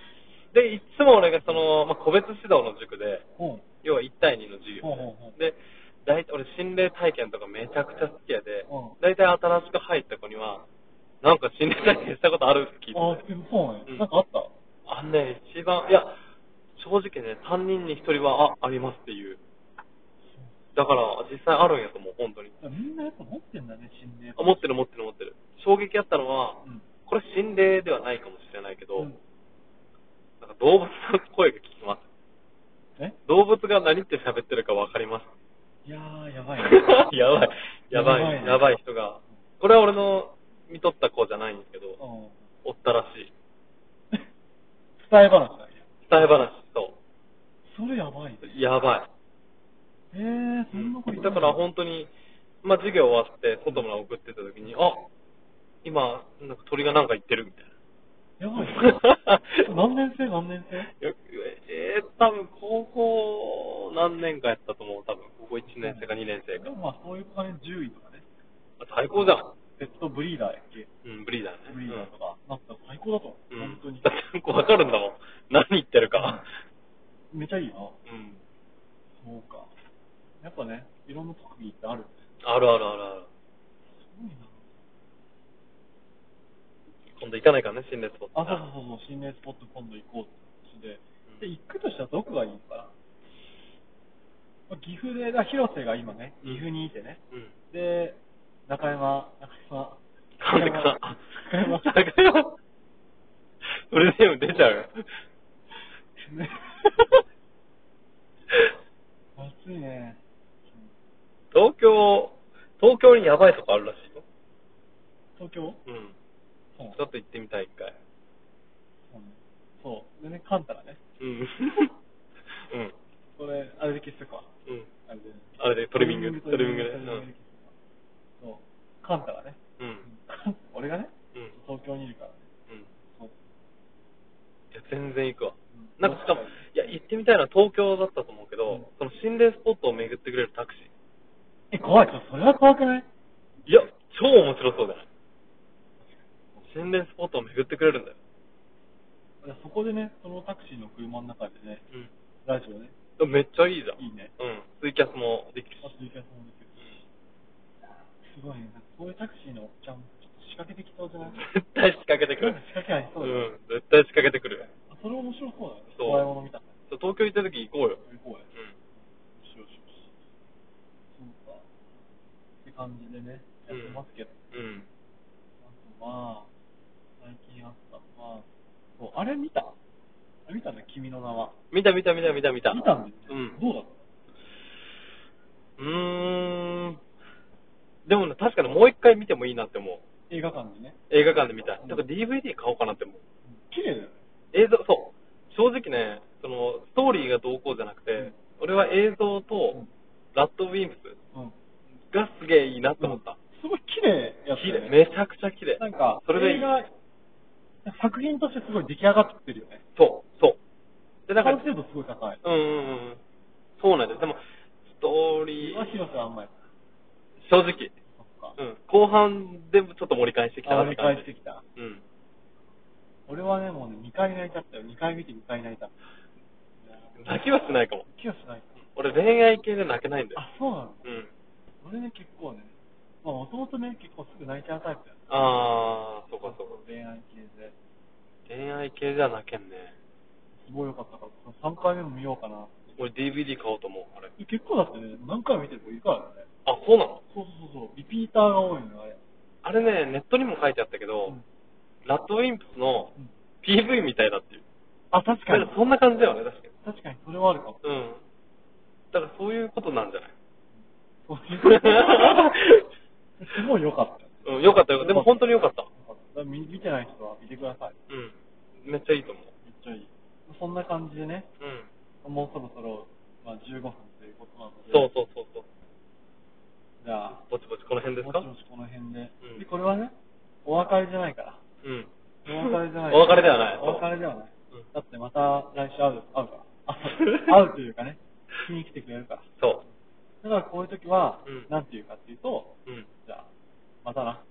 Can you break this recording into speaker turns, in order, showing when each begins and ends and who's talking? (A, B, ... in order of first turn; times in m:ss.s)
0:00.5-0:03.2 A
0:03.4-0:03.6 B
0:03.8-0:10.7 A
0:04.8-0:05.4 B
0:08.7-0:09.0 B
0:11.2-0:13.2 A
0:12.9-0:14.5 B
0:14.9-0:16.2 A
0:16.8-0:19.4 A
0:20.2-0:20.8 B
0:20.8-0:22.5 A
0:22.6-0:24.7 B
0:24.4-0:29.1 A
0:30.4-0:32.1 A
0:33.3-0:35.3 A
0:35.9-0:37.0 B
0:36.6-0:42.0 A
0:37.9-0:38.8 B
0:42.0-0:42.4 B
0:42.6-0:43.3 A
0:45.0-0:46.5 B
0:46.1-0:47.0 A
0:47.7-0:48.6 B
0:48.4-0:49.1 A
0:50.1-0:51.6 B
0:50.7-0:52.1 A
0:52.6-0:55.1 A
0:55.8-0:57.7 A
0:58.4-0:58.9 B
0:58.6-0:59.6 A
0:59.6-1:00.9 B
1:00.8-1:06.7 A
1:05.8-1:08.2 B
1:08.8-1:09.5 A
1:09.1-1:10.9 B
1:11.0-1:12.1 A
1:11.7-1:14.1 B
1:13.5-1:16.5 A
1:16.2-1:16.4 B
1:17.3-1:18.0 B
1:18.1-1:18.4 A
1:19.2-1:19.7 B
1:20.4-1:22.3 B
1:22.4-1:23.3 A
1:23.9-1:24.7 B
1:27.2-1:28.6 A
1:28.3-1:32.9 B
1:34.7-1:37.2 B
1:37.7-1:41.9 B
1:40.4-1:42.6 A
1:43.6-1:45.0 A
1:46.2-1:47.1 B
1:49.4-1:50.9 B
1:51.5-1:54.2 A
1:55.4-1:55.8 B
1:55.9-1:56.1 A
1:57.0-1:58.0 A
1:59.1-2:01.0 B
2:01.2-2:01.9 A
2:02.6-2:02.9 A
2:03.4-2:04.5 B
2:05.1-2:07.7 B
2:05.6-2:07.2 A
2:08.4-2:12.4 B
2:09.8-2:10.1 A
2:14.7-2:20.9 A
2:15.7-2:16.9 B
2:21.7-2:23.1 B
2:23.7-2:25.1 A
2:26.0-2:26.9 B
2:26.7-2:28.2 A
2:29.4-2:31.8 B
2:32.4-2:33.0 B
2:33.2-2:35.9 A
2:34.0-2:34.3 B
2:35.8-2:37.0 B
2:38.2-2:41.4 B
2:41.2-2:42.6 A
2:42.4-2:43.5 B
2:43.2-2:44.7 A
2:44.6-2:46.7 B
2:45.9-2:46.3 A
2:46.9-2:48.0 A
2:48.0-2:48.5 B
2:49.4-2:50.1 B
2:51.2-2:51.7 B
2:52.6-2:54.4 B
2:53.7-2:54.9 A
2:55.6-2:56.5 B
2:57.2-2:58.5 B
2:59.0-2:59.8 B
3:00.5-3:01.6 B
3:01.7-3:03.6 A
3:02.7-3:04.0 B
3:05.8-3:07.0 A
3:08.1-3:10.0 A
3:10.3-3:11.0 B
3:11.1-3:13.2 A
3:13.5-3:14.2 B
3:14.5-3:19.8 A
3:20.3-3:21.2 A
3:22.1-3:23.4 A
3:23.0-3:25.0 B
3:24.6-3:26.8 A
3:25.8-3:26.9 B
3:27.8-3:29.8 B
3:30.0-3:30.6 A
3:31.3-3:31.6 A
3:31.4-3:32.4 B
3:32.4-3:33.2 A
3:33.8-3:35.9 A
3:35.6-3:36.5 B
3:37.4-3:37.9 A
3:38.1-3:38.6 B
3:38.6-3:42.0 A
3:40.6-3:41.6 B
3:43.3-3:46.0 B
3:46.8-3:47.4 B
3:47.2-3:48.1 A
3:48.0-3:48.8 B
3:49.0-3:50.4 A
3:50.4-3:51.1 B
3:51.8-3:55.6 B
3:55.3-3:56.8 A
3:56.4-3:57.8 B
3:58.5-3:59.9 A
4:00.6-4:03.0 B
4:03.0-4:04.3 A
4:04.4-4:06.5 B
4:06.7-4:07.2 A
4:07.3-4:09.2 B
4:09.6-4:11.4 A
4:12.1-4:14.6 A
4:15.1-4:15.7 B
4:15.3-4:16.7 A
4:16.8-4:17.8 B
4:17.8-4:18.2 A
4:19.1-4:20.3 A
4:21.3-4:22.6 B
4:21.6-4:22.9 A
4:23.4-4:28.0 B
4:24.4-4:25.9 A
4:28.1-4:29.5 A
4:29.6-4:31.5 B
4:31.6-4:31.9 A
4:32.2-4:35.1 B
4:34.9-4:35.7 A
4:37.0-4:37.4 B
4:37.4-4:38.5 A
4:38.2-4:40.1 B
4:40.6-4:41.6 B
4:41.8-4:44.0 A
4:42.4-4:49.5 B
4:49.6-4:49.8 A
4:50.4-4:53.5 B
4:54.0-4:54.4 B